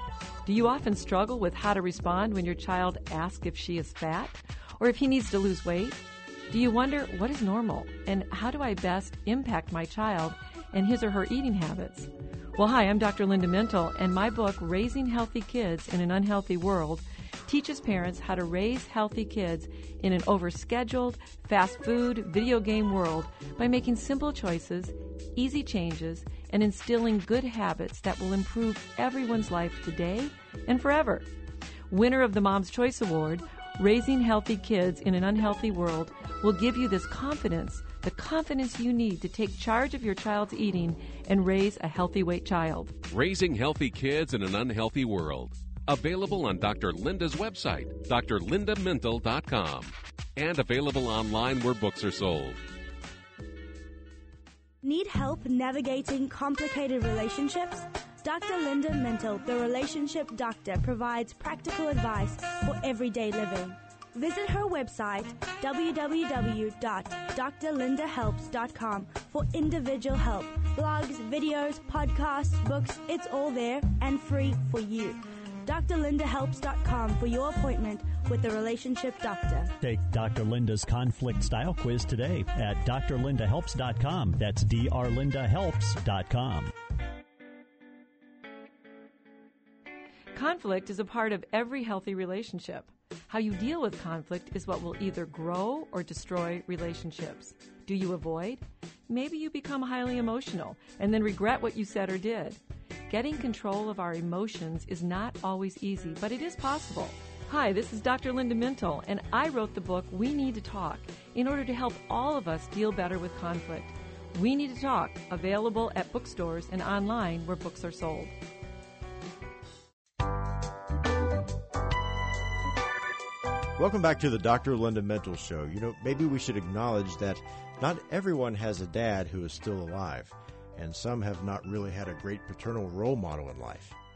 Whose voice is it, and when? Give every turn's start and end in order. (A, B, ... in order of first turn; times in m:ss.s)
0:00.4-0:31.3 A
0:31.9-0:43.0 A
0:43.1-0:52.6 B
0:54.8-1:19.7 C
1:19.8-1:26.7 D
1:30.3-1:42.6 A
1:43.1-1:58.3 A
2:03.8-2:14.0 E